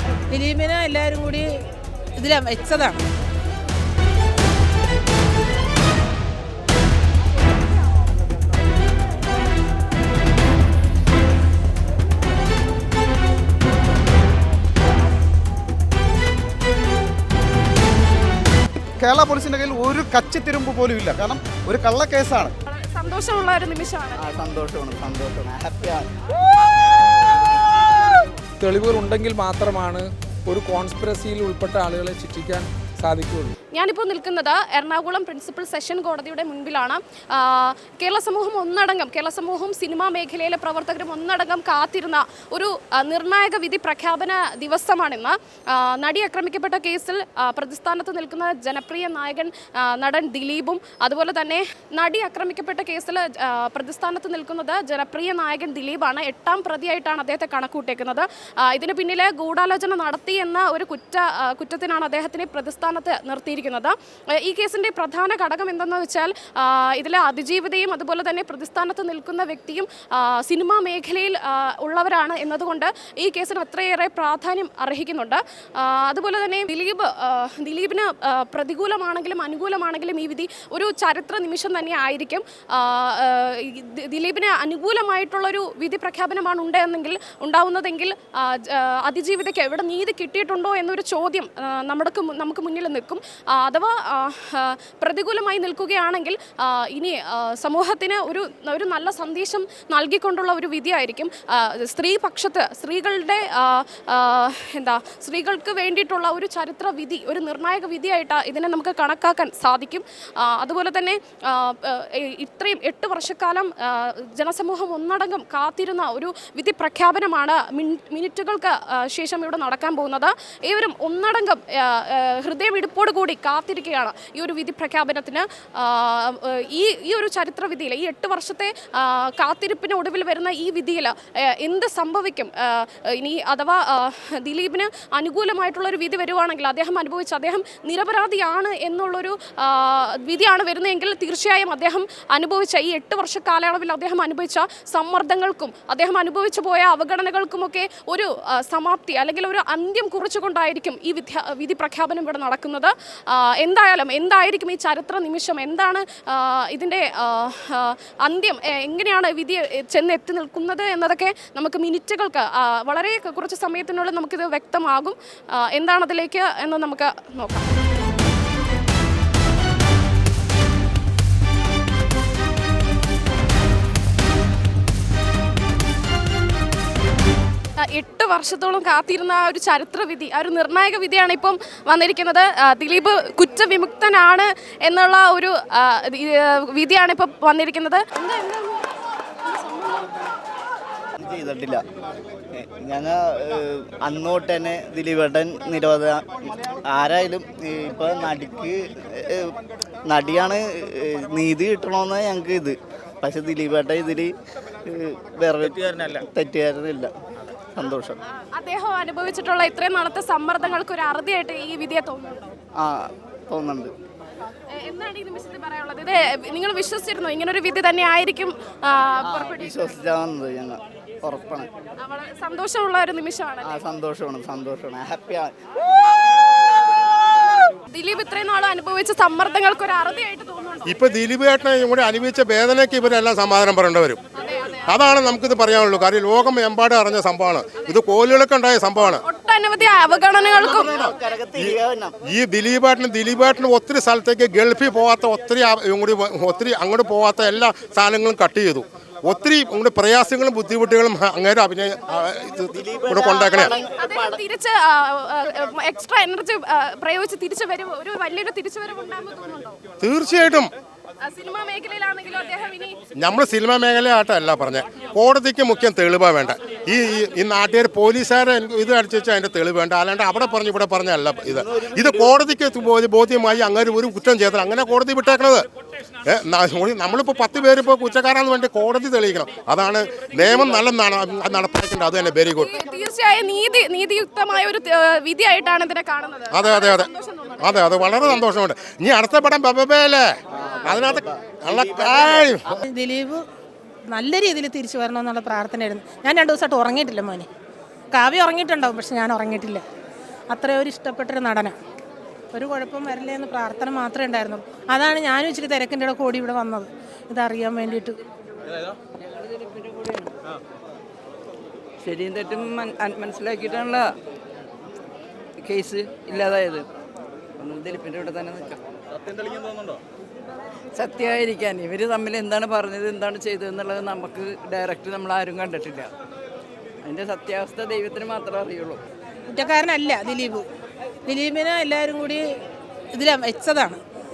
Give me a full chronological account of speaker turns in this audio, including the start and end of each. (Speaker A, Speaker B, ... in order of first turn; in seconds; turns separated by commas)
Speaker A: 0.3-1.5, Speaker A: 2.2-3.0, Speaker B: 19.0-22.6, Speaker C: 22.7-24.3, Speaker D: 24.2-26.1, Speaker E: 28.6-33.5, Speaker C: 33.7-167.7, Speaker C: 177.8-188.8, Speaker C: 189.4-190.1, Speaker D: 191.2-191.8, Speaker D: 192.5-204.3, Speaker D: 204.8-207.1, Speaker D: 207.8-208.2, Speaker C: 208.5-212.5, Speaker D: 212.8-213.9, Speaker C: 214.8-219.9, Speaker D: 219.2-221.7, Speaker C: 222.0-223.8, Speaker D: 223.6-225.5, Speaker C: 227.9-230.9, Speaker F: 230.9-234.2, Speaker C: 234.3-234.9, Speaker F: 234.9-239.2, Speaker C: 239.2-241.0, Speaker D: 240.5-242.1, Speaker F: 240.8-241.8, Speaker F: 242.3-253.8, Speaker D: 252.7-254.4, Speaker C: 253.6-259.8, Speaker F: 260.0-260.7, Speaker C: 261.2-263.0, Speaker F: 263.2-275.6, Speaker F: 276.2-282.7, Speaker C: 282.6-288.2, Speaker F: 286.5-287.1, Speaker F: 287.6-292.8, Speaker D: 292.0-292.5, Speaker A: 292.8-293.4, Speaker A: 294.1-297.5, Speaker A: 298.1-299.8, Speaker A: 300.5-301.8, Speaker A: 302.5-308.2, Speaker G: 309.4-310.3, Speaker G: 312.0-314.1, Speaker G: 315.6-316.9, Speaker G: 317.6-318.8, Speaker G: 320.9-326.1, Speaker G: 327.0-329.0, Speaker A: 329.5-330.6, Speaker A: 331.3-332.4, Speaker A: 333.1-334.0